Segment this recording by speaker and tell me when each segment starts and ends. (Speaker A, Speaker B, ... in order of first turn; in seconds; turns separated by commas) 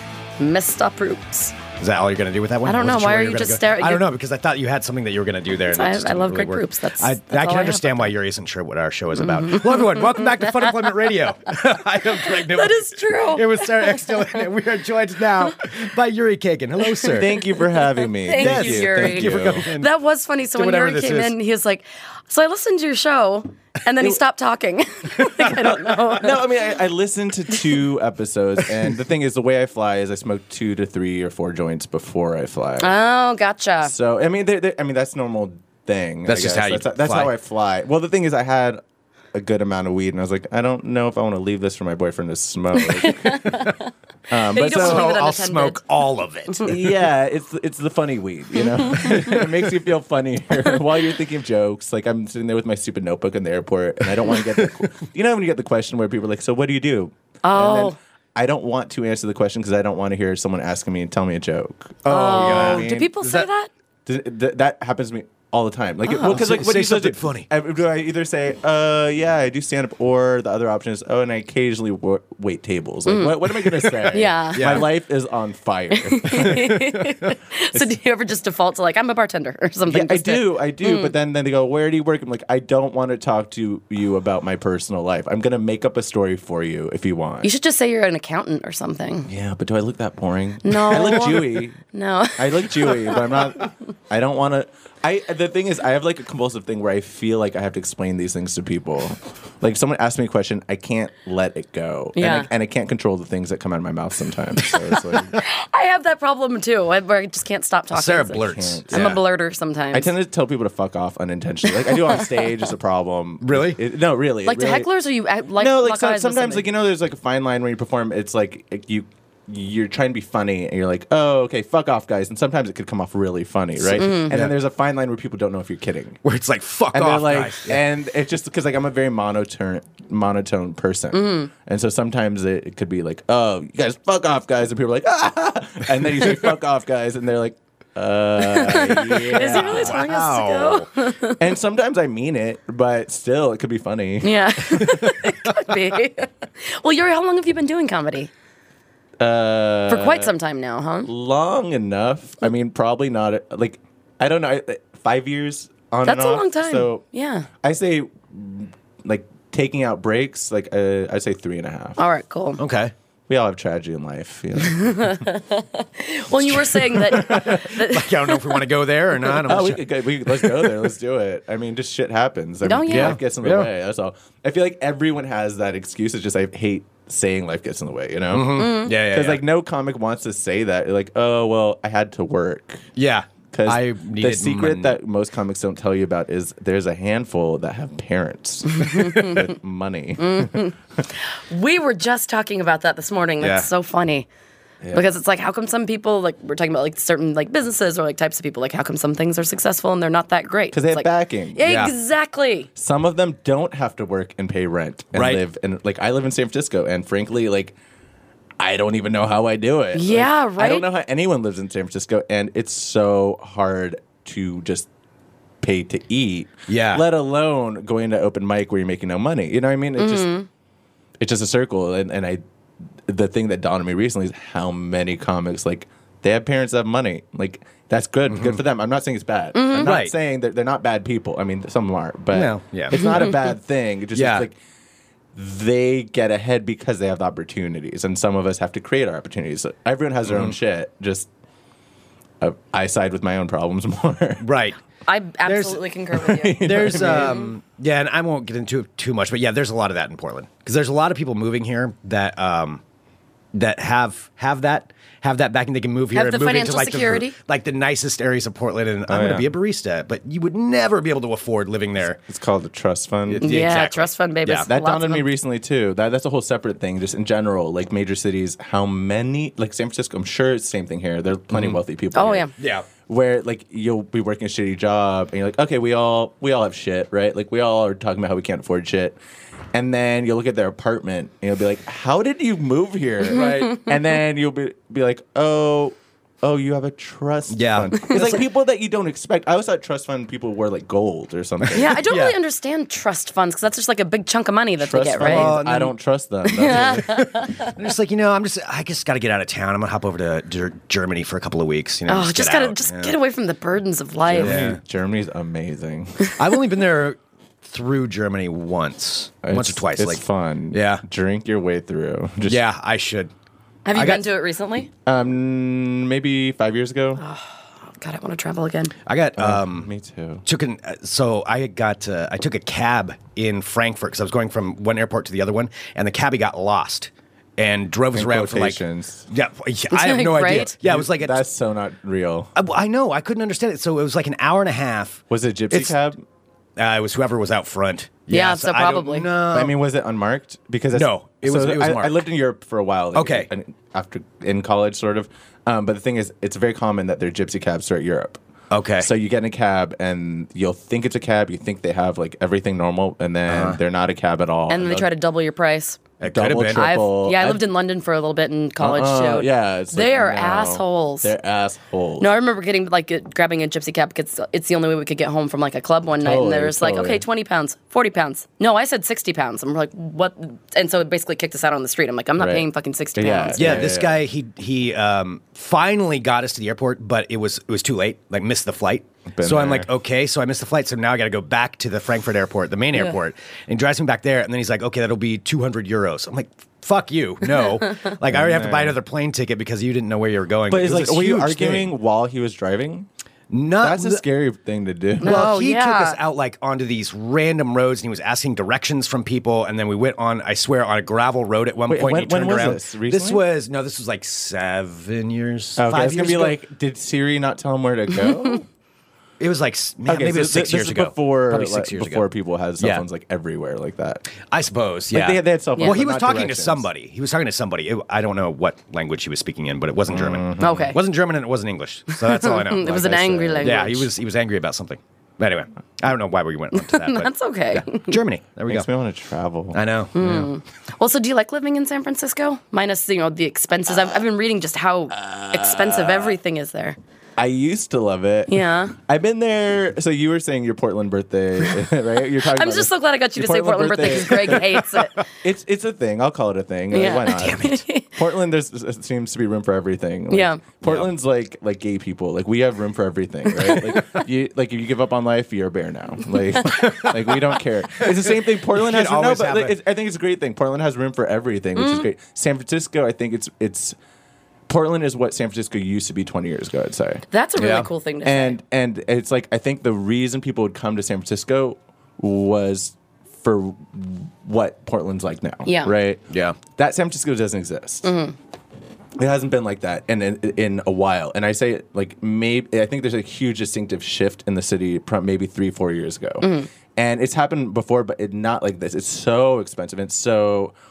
Speaker A: 0.4-1.6, Speaker B: 1.8-17.4, Speaker A: 2.6-4.1, Speaker A: 5.7-8.1, Speaker A: 9.2-10.9, Speaker A: 12.2-14.4, Speaker C: 17.1-19.6, Speaker A: 18.2-26.5, Speaker B: 18.4-19.9, Speaker B: 20.6-21.3, Speaker C: 25.4-32.9, Speaker A: 32.8-33.9, Speaker C: 33.8-38.8, Speaker B: 36.3-37.3, Speaker C: 39.3-43.7, Speaker A: 42.8-43.9, Speaker C: 44.3-45.1, Speaker A: 44.5-45.8, Speaker B: 44.6-46.8, Speaker C: 46.6-63.5, Speaker A: 48.6-49.4, Speaker A: 57.4-58.0, Speaker B: 62.0-62.9, Speaker A: 62.1-63.7, Speaker C: 64.1-76.8, Speaker A: 66.0-66.4, Speaker B: 66.2-67.5, Speaker A: 73.1-74.9, Speaker B: 74.5-74.9, Speaker A: 75.9-81.1, Speaker C: 79.9-87.5, Speaker A: 87.4-89.3, Speaker C: 89.3-91.8, Speaker A: 90.7-93.5, Speaker C: 92.4-105.4, Speaker A: 102.2-102.5, Speaker A: 105.3-110.1, Speaker B: 107.9-109.2, Speaker C: 108.4-109.2, Speaker C: 109.9-114.9, Speaker B: 113.4-113.8, Speaker A: 114.4-116.7, Speaker C: 115.6-126.2, Speaker B: 123.8-124.5, Speaker A: 124.0-124.4, Speaker B: 126.2-127.8, Speaker C: 126.9-140.0, Speaker A: 131.1-131.5, Speaker A: 138.5-141.4, Speaker B: 139.2-140.9, Speaker C: 141.3-145.1, Speaker A: 144.2-148.3, Speaker C: 149.2-150.3, Speaker A: 149.9-151.1, Speaker C: 151.1-157.0, Speaker A: 156.1-157.5, Speaker C: 157.6-162.0, Speaker A: 162.0-162.6, Speaker B: 162.6-162.9, Speaker C: 163.3-165.2, Speaker A: 164.8-168.6, Speaker C: 166.8-167.7, Speaker B: 167.2-170.9, Speaker C: 169.5-182.8, Speaker A: 172.6-173.2, Speaker B: 172.9-173.7, Speaker B: 178.3-179.4, Speaker A: 178.6-178.9, Speaker B: 183.0-185.0, Speaker C: 183.5-190.7, Speaker A: 188.8-189.5, Speaker A: 190.2-190.7, Speaker A: 191.5-194.3, Speaker B: 193.4-193.7, Speaker A: 194.9-202.7, Speaker C: 200.7-201.7, Speaker B: 201.6-201.9, Speaker C: 202.8-207.7, Speaker B: 205.1-205.4, Speaker C: 208.6-214.9, Speaker A: 209.9-210.9, Speaker C: 215.6-220.3, Speaker B: 216.7-217.1, Speaker A: 220.0-220.5, Speaker C: 221.2-222.4, Speaker C: 223.1-234.6, Speaker B: 228.3-228.6, Speaker A: 229.5-229.9, Speaker B: 229.8-230.1, Speaker B: 232.3-233.3, Speaker A: 232.9-233.5, Speaker B: 234.1-234.5, Speaker C: 235.3-241.3, Speaker B: 240.3-240.6, Speaker C: 242.4-244.4, Speaker B: 244.4-244.8, Speaker A: 245.1-247.5, Speaker B: 245.5-245.8, Speaker C: 246.2-247.4, Speaker B: 246.6-252.8, Speaker B: 253.5-262.2, Speaker A: 256.1-257.4, Speaker C: 259.1-259.5, Speaker C: 262.2-263.7, Speaker B: 263.3-264.7, Speaker A: 263.4-265.3, Speaker C: 264.7-279.2, Speaker B: 271.5-271.8, Speaker A: 272.1-272.5, Speaker B: 272.6-272.9, Speaker C: 279.7-292.0, Speaker A: 283.3-283.9, Speaker B: 283.4-283.7, Speaker B: 287.5-288.4, Speaker B: 291.6-292.4, Speaker A: 291.8-295.6, Speaker C: 294.8-297.3, Speaker B: 295.2-296.0, Speaker A: 296.5-297.6, Speaker B: 296.6-303.2, Speaker A: 302.1-304.7, Speaker C: 304.3-306.3, Speaker B: 304.4-304.8, Speaker B: 306.4-311.0, Speaker C: 309.4-312.6, Speaker B: 312.4-313.3, Speaker A: 313.9-314.9, Speaker B: 313.9-314.2, Speaker C: 315.1-317.2, Speaker A: 317.2-318.9, Speaker B: 319.1-319.9, Speaker C: 319.4-320.4, Speaker B: 320.4-331.4, Speaker C: 328.1-329.3, Speaker A: 329.9-330.8, Speaker C: 330.6-332.5, Speaker B: 332.6-335.9, Speaker C: 335.3-336.2, Speaker B: 336.8-339.8, Speaker A: 338.3-339.3, Speaker C: 339.5-348.4, Speaker B: 340.9-342.2, Speaker B: 343.1-343.5, Speaker B: 348.7-349.1, Speaker C: 349.0-355.1, Speaker B: 353.5-353.8, Speaker A: 354.7-356.1, Speaker B: 356.2-356.9, Speaker C: 356.3-357.6, Speaker A: 356.8-361.3, Speaker C: 358.8-362.3, Speaker A: 362.2-373.9, Speaker C: 366.2-367.2, Speaker C: 372.4-374.2, Speaker B: 373.6-391.9, Speaker C: 379.3-379.9, Speaker C: 388.3-389.0, Speaker C: 390.7-393.1, Speaker B: 393.5-394.2, Speaker C: 393.8-395.5, Speaker A: 395.2-396.2, Speaker B: 395.2-406.6, Speaker C: 401.9-403.4, Speaker C: 405.8-408.6, Speaker B: 409.4-412.3, Speaker C: 410.1-414.3, Speaker B: 412.8-413.1, Speaker B: 414.5-423.0, Speaker C: 415.1-416.9, Speaker C: 420.1-420.9, Speaker A: 420.6-421.0, Speaker A: 422.2-424.1, Speaker C: 422.8-424.0, Speaker B: 423.6-428.9, Speaker A: 426.8-428.1, Speaker C: 428.7-430.5, Speaker B: 429.7-430.3, Speaker A: 430.1-437.0, Speaker C: 435.1-436.3, Speaker C: 437.4-464.0, Speaker A: 438.5-438.9, Speaker A: 442.4-445.2, Speaker A: 446.9-448.2, Speaker A: 450.3-450.6, Speaker B: 450.8-451.1, Speaker B: 453.6-454.2, Speaker B: 456.6-459.8, Speaker A: 461.8-462.1, Speaker C: 464.7-467.2, Speaker A: 467.3-468.6, Speaker B: 467.6-467.9, Speaker C: 468.2-478.1, Speaker A: 475.7-475.9, Speaker B: 476.3-476.6, Speaker A: 478.1-478.4, Speaker C: 479.2-490.7, Speaker A: 486.4-486.7